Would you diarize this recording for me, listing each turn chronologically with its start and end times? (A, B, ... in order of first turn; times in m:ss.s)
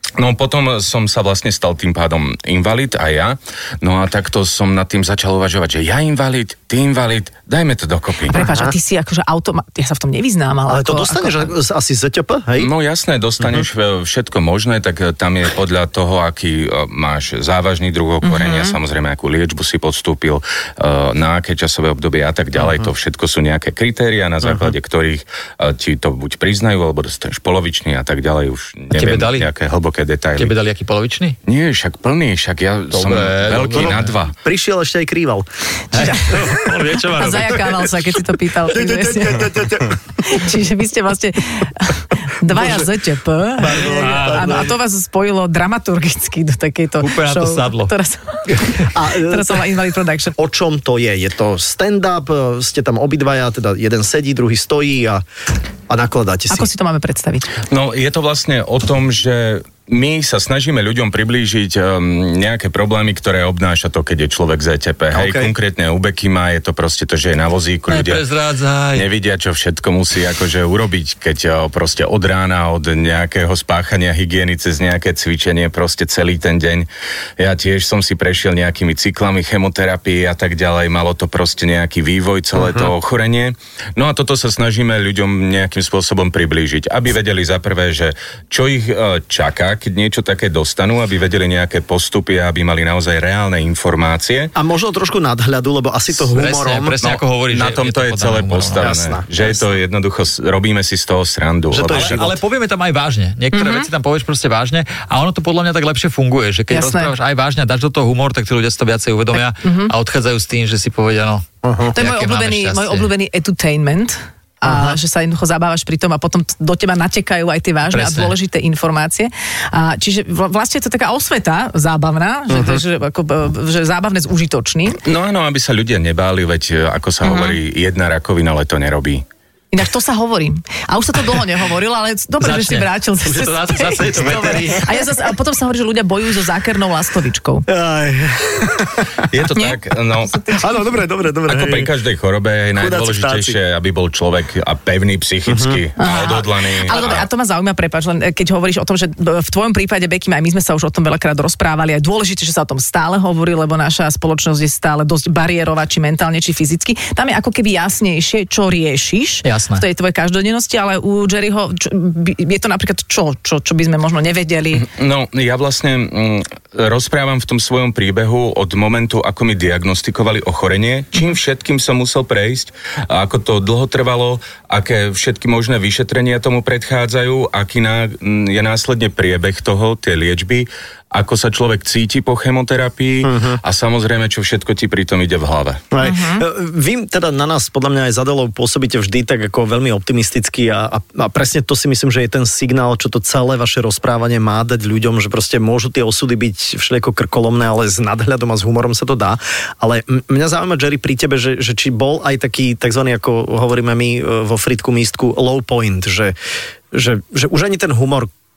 0:00.2-0:08.4 A
0:08.3-0:11.5 B
0:08.4-0:08.7 C
0:10.7-0:12.7 C
0:12.6-0:30.5 A
0:13.4-0:13.6 C
0:18.2-0:18.8 B
0:22.6-0:22.9 C
0:24.4-0:24.7 C
0:28.9-0:29.5 D
0:30.4-0:31.4 D
0:31.4-0:34.3 A
0:32.9-0:34.1 D
0:33.7-0:36.5 C
0:35.9-0:37.9 D
0:35.9-0:39.6 B
0:38.6-0:40.0 C
0:40.2-0:50.3 B
0:42.5-0:43.0 C
0:43.6-0:44.7 D
0:43.6-0:44.7 C
0:47.0-0:47.9 D
0:48.9-0:49.6 C
0:50.4-0:55.2 C
0:55.9-0:56.7 C
0:56.5-0:57.5 B
0:57.7-1:08.2 A
1:05.1-1:05.5 C
1:07.9-1:09.1 D
1:08.9-1:16.9 A
1:17.4-1:34.5 A
1:22.6-1:22.9 C
1:34.5-1:36.9 C
1:36.3-1:38.9 D
1:37.0-1:42.3 A
1:38.8-1:39.6 C
1:41.7-1:42.4 C
1:41.8-1:53.1 D
1:43.5-1:43.9 B
1:46.7-1:47.1 B
1:49.4-1:49.9 B
1:51.6-1:52.0 C
1:51.9-2:05.0 B
1:54.6-1:55.0 C
1:57.9-1:58.3 D
2:02.5-2:02.8 C
2:05.0-2:09.2 A
2:07.2-2:07.6 B
2:09.7-2:17.6 B
2:12.4-2:15.0 D
2:17.7-2:19.2 C
2:19.2-2:20.5 A
2:20.3-2:20.6 B
2:20.5-2:21.9 C
2:21.5-2:27.2 A
2:22.7-2:23.6 C
2:25.5-2:25.8 C
2:26.0-2:44.9 B
2:39.4-2:39.8 D
2:44.8-3:05.8 A
3:03.2-3:03.6 C
3:05.9-3:26.3 C
3:06.0-3:06.5 B
3:26.9-3:28.3 C